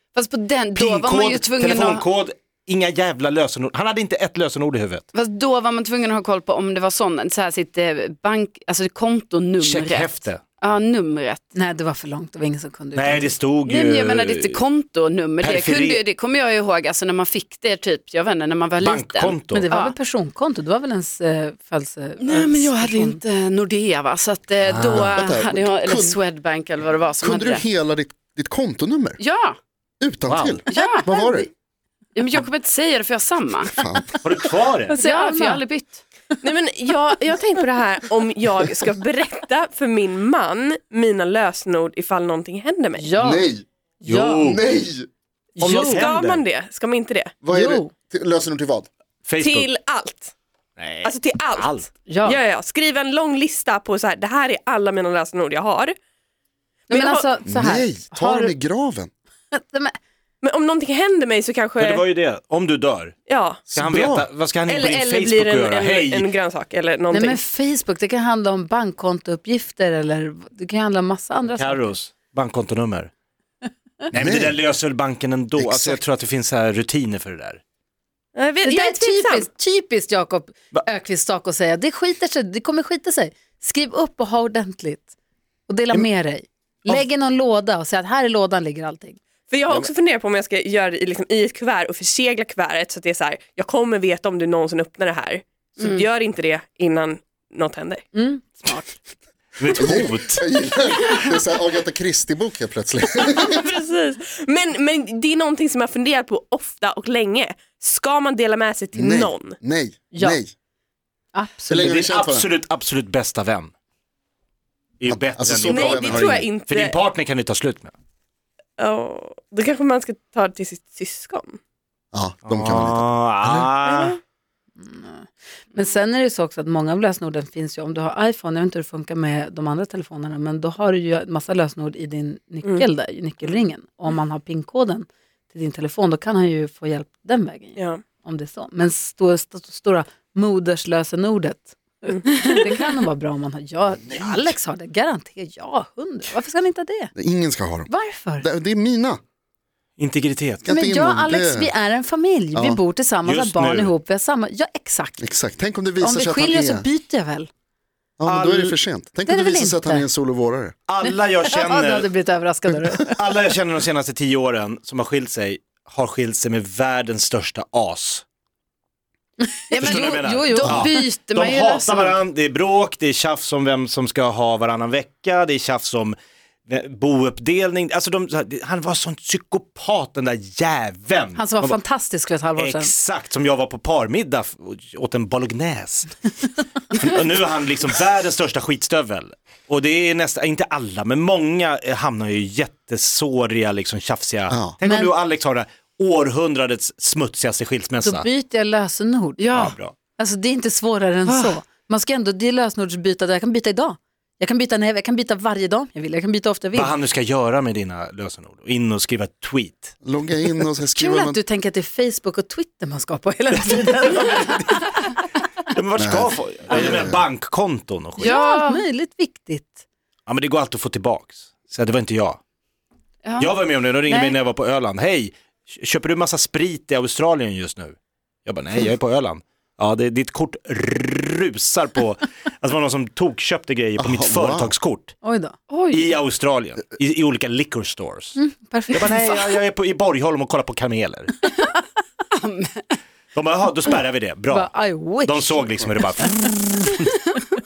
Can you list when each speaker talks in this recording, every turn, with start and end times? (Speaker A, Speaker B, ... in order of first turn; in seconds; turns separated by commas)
Speaker A: 0.1-2.0, Speaker B: 0.7-5.0, Speaker A: 5.1-11.5, Speaker B: 9.6-10.4, Speaker C: 11.5-13.3, Speaker B: 12.9-14.6, Speaker A: 13.6-19.9, Speaker B: 15.4-16.0, Speaker B: 18.8-19.6, Speaker C: 19.5-23.2, Speaker A: 22.2-27.6, Speaker B: 24.6-25.2, Speaker D: 25.0-26.2, Speaker D: 27.2-29.2, Speaker A: 29.2-29.6, Speaker D: 30.0-31.5, Speaker B: 30.3-30.6, Speaker A: 30.7-31.2, Speaker A: 32.1-33.8, Speaker D: 33.8-34.2, Speaker B: 34.2-35.0, Speaker A: 34.9-36.0, Speaker C: 34.9-35.6, Speaker E: 36.4-43.1, Speaker C: 43.0-43.5, Speaker D: 43.2-43.6, Speaker C: 44.0-44.6, Speaker B: 44.0-44.6, Speaker D: 44.3-45.1, Speaker C: 45.5-46.1, Speaker B: 45.6-46.4, Speaker E: 45.6-47.3, Speaker D: 47.4-48.9, Speaker C: 47.5-47.9, Speaker B: 49.2-49.7, Speaker E: 49.4-50.3, Speaker B: 50.8-51.8, Speaker E: 51.0-55.9, Speaker C: 52.0-52.4, Speaker E: 56.9-57.4, Speaker C: 56.9-58.5, Speaker D: 57.5-59.1, Speaker C: 59.5-60.0, Speaker E: 60.4-62.0, Speaker B: 61.8-63.1, Speaker E: 63.3-63.7, Speaker D: 63.7-64.3, Speaker B: 63.7-66.3, Speaker E: 64.7-67.4, Speaker C: 67.1-71.9, Speaker B: 71.5-73.1, Speaker D: 74.1-74.6, Speaker B: 74.1-77.6, Speaker D: 75.6-76.0, Speaker E: 78.3-79.5, Speaker C: 78.6-85.1, Speaker C: 85.7-89.2, Speaker E: 89.5-98.0, Speaker C: 98.1-98.9, Speaker B: 99.6-100.4, Speaker D: 99.7-103.6, Speaker E: 103.4-109.5, Speaker D: 108.9-110.5, Speaker C: 110.1-110.4, Speaker C: 111.3-112.0, Speaker D: 111.7-112.5, Speaker B: 111.7-113.7, Speaker B: 115.0-117.9, Speaker D: 115.1-116.5, Speaker E: 115.7-117.0, Speaker E: 118.8-121.6, Speaker D: 122.1-123.7, Speaker B: 122.5-124.2, Speaker E: 123.8-124.2, Speaker C: 124.8-147.1, Speaker E: 137.8-138.0, Speaker B: 144.1-144.4, Speaker D: 147.2-149.2, Speaker C: 147.9-148.4, Speaker B: 150.0-150.6, Speaker D: 150.6-151.7, Speaker C: 150.7-155.2, Speaker D: 152.5-152.8, Speaker B: 153.2-153.9, Speaker D: 155.2-156.9, Speaker C: 156.0-157.5, Speaker D: 158.2-160.8, Speaker B: 158.2-158.8, Speaker C: 159.2-160.1, Speaker B: 160.9-162.1, Speaker C: 161.0-163.1, Speaker B: 163.0-168.2, Speaker C: 169.4-171.1, Speaker A: 169.7-172.2, Speaker B: 169.8-176.2, Speaker B: 176.7-181.8, Speaker C: 181.3-182.9, Speaker B: 182.6-186.3, Speaker B: 186.9-198.3, Speaker D: 194.5-194.8, Speaker C: 194.8-195.1, Speaker C: 198.0-199.4, Speaker A: 199.4-199.7, Speaker B: 199.5-199.9, Speaker C: 200.2-206.9, Speaker A: 201.3-201.5, Speaker B: 206.7-209.9, Speaker D: 210.0-211.4, Speaker C: 210.9-214.9, Speaker B: 213.6-214.7, Speaker B: 215.7-218.4, Speaker D: 216.0-217.2, Speaker C: 218.2-219.8, Speaker A: 218.2-218.8, Speaker B: 220.3-222.4, Speaker A: 223.2-223.5, Speaker B: 223.4-235.2, Speaker A: 224.1-224.3, Speaker D: 234.0-234.7, Speaker C: 235.2-235.6, Speaker A: 235.7-236.1, Speaker B: 235.9-238.4, Speaker C: 238.3-239.2, Speaker B: 238.9-241.3, Speaker A: 242.3-243.0, Speaker B: 243.3-247.0, Speaker C: 244.5-245.7, Speaker C: 247.0-247.3